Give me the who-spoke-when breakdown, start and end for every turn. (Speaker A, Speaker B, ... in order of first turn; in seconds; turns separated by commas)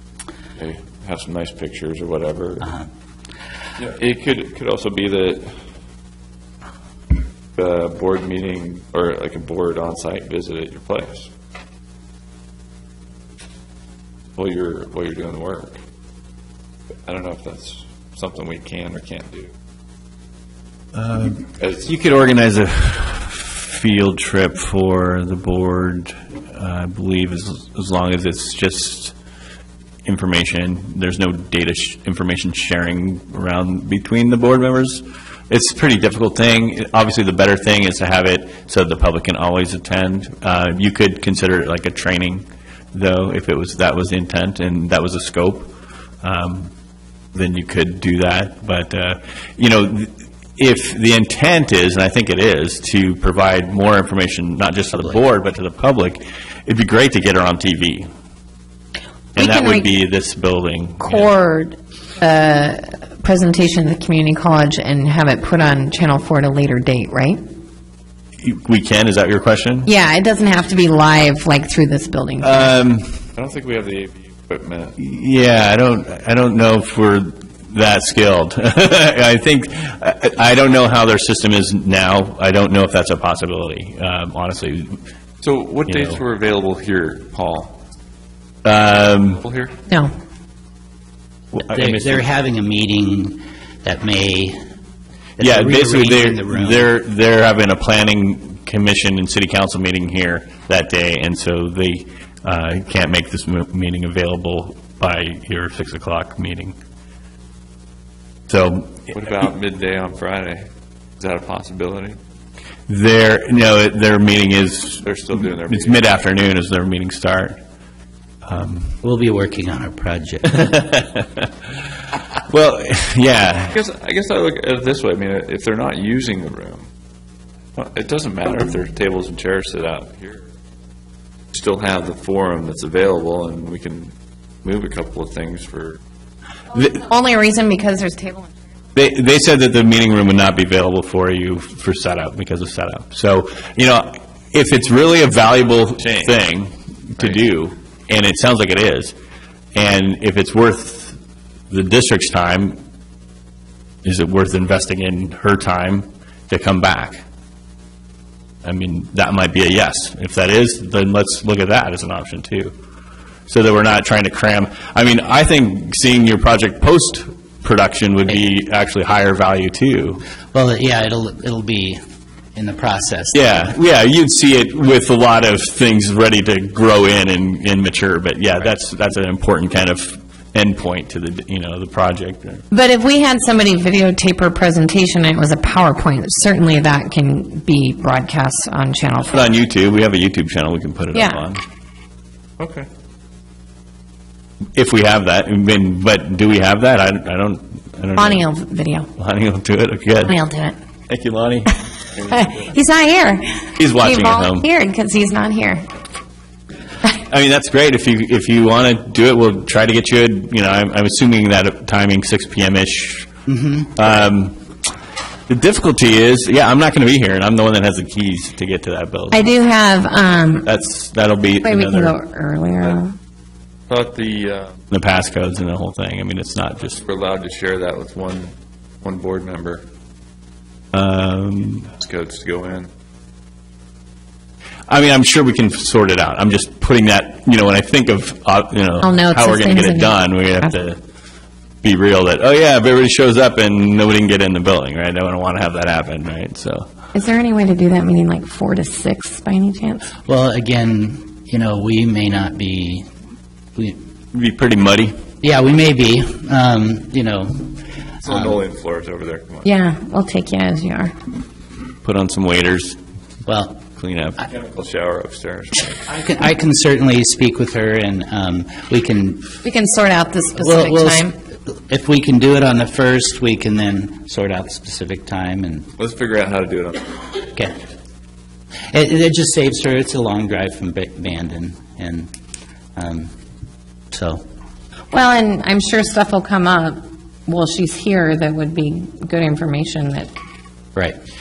Speaker A: 0.6-2.7, Speaker A: 3.8-5.6, Speaker A: 7.5-11.3, Speaker A: 14.4-15.8, Speaker A: 17.1-19.5, Speaker B: 20.9-29.2, Speaker A: 21.6-21.9, Speaker B: 30.1-45.7, Speaker B: 46.2-46.7, Speaker B: 47.3-58.1, Speaker C: 59.3-59.9, Speaker B: 59.4-61.3, Speaker C: 61.0-67.4, Speaker B: 68.4-69.9, Speaker C: 69.8-72.8, Speaker B: 72.4-73.2, Speaker A: 73.4-75.0, Speaker B: 75.0-85.0, Speaker A: 85.4-87.8, Speaker B: 85.9-86.2, Speaker B: 88.6-89.4, Speaker A: 89.3-89.8, Speaker B: 91.5-92.2, Speaker D: 91.7-94.6, Speaker D: 95.4-96.9, Speaker B: 95.4-106.8, Speaker B: 108.5-109.1, Speaker A: 109.1-110.6, Speaker A: 111.2-112.2, Speaker B: 112.9-117.6, Speaker A: 115.0-116.2, Speaker B: 118.5-119.0, Speaker D: 119.0-120.7, Speaker B: 120.5-121.5, Speaker B: 122.5-123.8, Speaker A: 123.7-126.9, Speaker A: 127.7-130.5, Speaker A: 131.5-136.0, Speaker C: 136.7-138.5, Speaker B: 138.9-149.2, Speaker A: 146.0-146.4, Speaker B: 149.7-151.2, Speaker B: 151.7-152.8, Speaker B: 154.0-157.2, Speaker B: 158.6-162.7, Speaker B: 163.5-170.2, Speaker D: 170.5-172.0, Speaker D: 172.5-173.4, Speaker B: 173.3-182.6, Speaker C: 182.7-189.5, Speaker B: 189.2-191.6, Speaker C: 191.1-191.4, Speaker A: 192.6-192.9, Speaker B: 194.7-198.4, Speaker C: 198.2-199.1, Speaker B: 199.1-200.3, Speaker C: 200.2-200.8, Speaker B: 201.1-201.7, Speaker C: 202.3-205.9, Speaker B: 203.8-204.7, Speaker B: 207.2-213.3, Speaker D: 213.5-213.9, Speaker B: 213.9-214.6, Speaker B: 215.5-219.5, Speaker C: 219.3-220.7, Speaker B: 220.6-222.1, Speaker C: 221.6-223.2, Speaker A: 223.9-224.8, Speaker B: 224.9-227.0, Speaker A: 226.9-229.8, Speaker B: 230.9-231.9, Speaker A: 231.9-232.9, Speaker B: 234.9-241.0, Speaker C: 239.0-240.2, Speaker B: 241.8-246.9, Speaker C: 247.1-250.1, Speaker D: 250.1-253.1, Speaker B: 254.3-255.2, Speaker D: 255.4-258.6, Speaker A: 258.2-259.7, Speaker C: 259.6-261.1, Speaker B: 262.0-263.0, Speaker D: 263.4-263.8, Speaker B: 264.0-264.4, Speaker A: 264.5-266.1, Speaker D: 266.1-269.5, Speaker C: 269.6-271.3, Speaker D: 270.6-275.9, Speaker A: 276.0-277.1, Speaker D: 278.9-282.3, Speaker D: 282.9-283.3, Speaker D: 284.1-284.4, Speaker C: 285.1-290.3